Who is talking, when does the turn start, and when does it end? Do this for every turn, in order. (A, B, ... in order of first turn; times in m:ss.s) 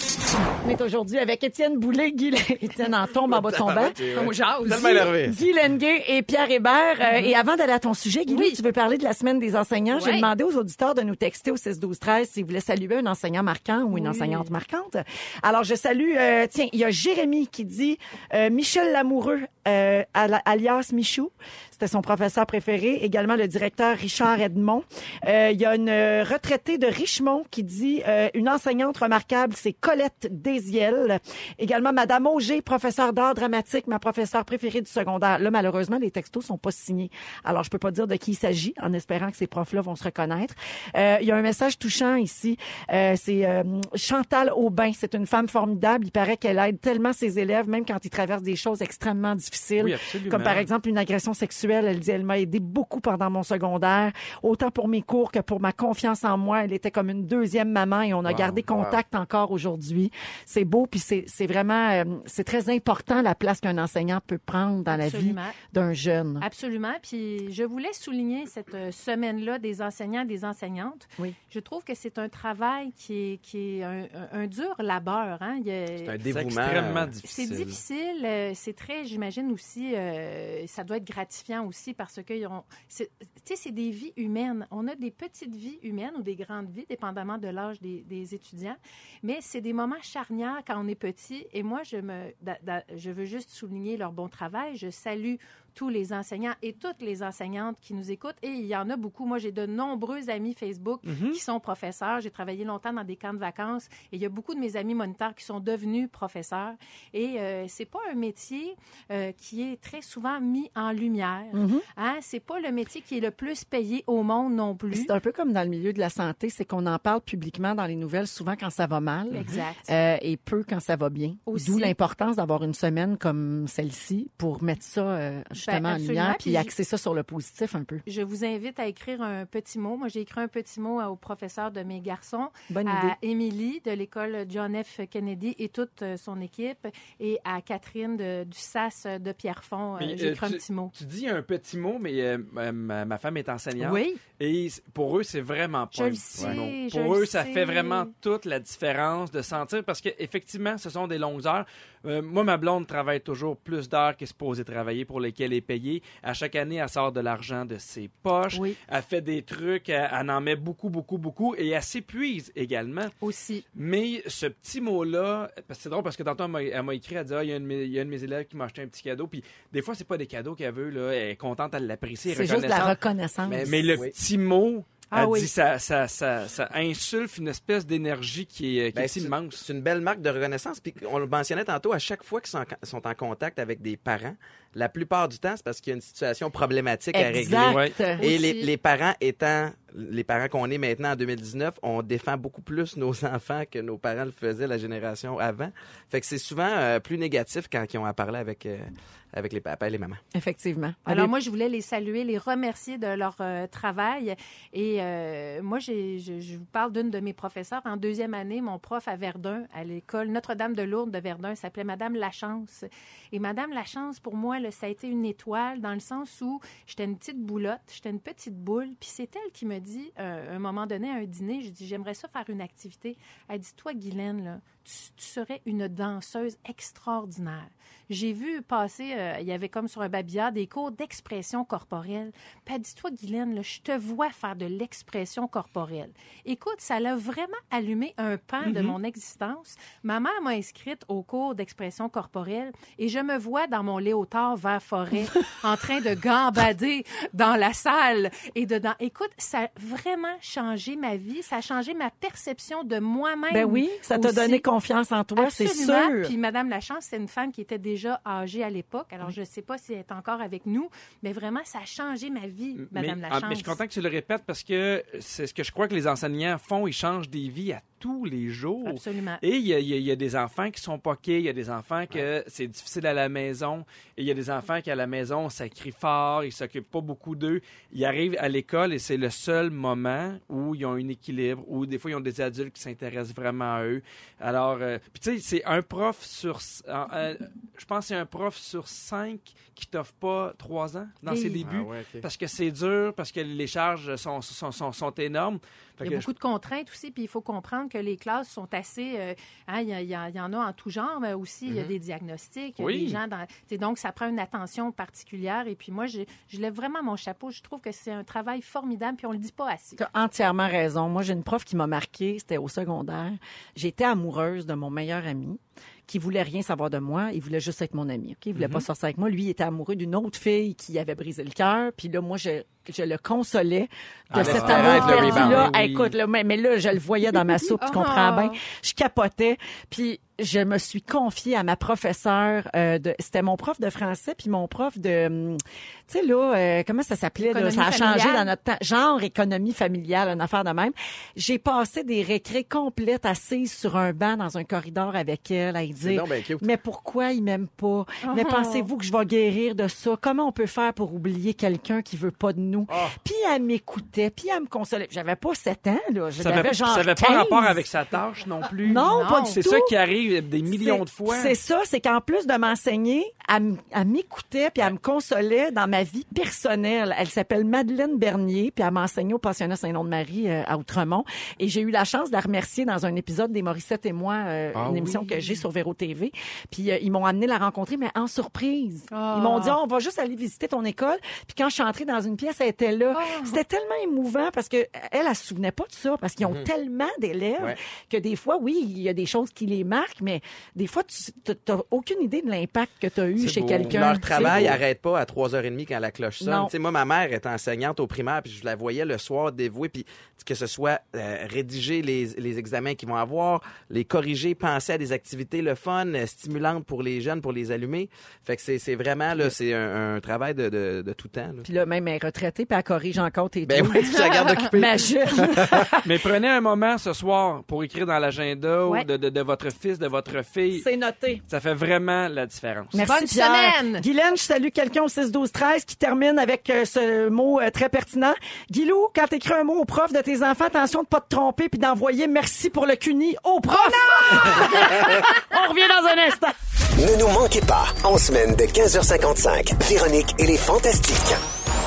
0:00.6-0:04.0 A
0:03.3-0:05.4 B
0:04.1-0:05.1 C
0:04.7-1:06.5 A
0:07.0-0:07.4 C
0:08.3-0:08.6 C
0:09.9-0:10.3 C
0:13.9-0:14.5 C
0:49.8-0:50.7 D
0:58.3-0:59.0 B
1:04.9-1:05.6 C
1:06.4-1:16.2 C
1:16.0-1:17.7 B
1:16.3-1:17.7 D
1:17.2-1:55.1 C
1:41.0-1:41.4 D
1:51.5-1:51.8 A
1:54.9-2:08.0 A
1:59.3-1:59.9 C
2:01.5-2:01.9 C
2:05.6-2:06.7 C
2:08.1-2:20.9 C
2:12.7-2:13.2 A
2:20.0-2:43.1 D
2:23.8-2:24.2 C
2:25.9-2:28.1 C
2:38.5-2:38.8 C
2:43.2-2:43.6 C
2:43.8-2:53.0 D
2:52.3-2:53.8 A
2:53.4-2:54.1 B
2:53.6-2:59.6 D
2:55.1-2:55.5 C
2:58.9-3:20.2 B
3:07.1-3:08.3 A
3:07.6-3:08.0 D
3:08.2-3:08.7 C
3:20.3-3:21.3 A
3:21.1-4:14.7 C
3:58.6-3:59.0 D
4:13.5-4:16.3 A
4:15.4-4:23.8 C
4:22.8-4:56.3 D
4:28.8-4:29.4 C
4:51.3-4:51.6 C
4:51.6-4:52.3 B
4:56.0-5:10.0 C
5:02.8-5:03.2 D
5:10.0-5:57.8 A
5:18.6-5:18.9 D
5:24.3-5:25.7 B
5:24.4-5:26.1 D
5:24.9-5:25.5 C
5:27.8-5:28.6 C
5:37.4-5:38.5 C
5:46.0-5:46.7 B
5:48.2-5:48.9 C
5:56.4-6:01.6 D
5:58.8-5:59.9 A
5:59.1-5:59.6 C
6:00.7-6:34.8 A
6:14.7-6:15.3 D
6:19.1-6:19.8 C
6:23.1-6:23.6 C
6:33.4-6:34.8 D
6:33.9-6:51.7 B
6:36.4-6:36.7 A
6:51.6-6:54.2 A
6:53.7-6:55.9 B
6:54.7-6:56.1 A
6:56.0-7:00.9 D
7:00.7-7:01.4 A
7:01.5-7:03.0 D
7:02.9-7:16.6 A
7:03.0-7:04.1 C
7:13.7-7:15.4 C
7:17.0-7:21.4 E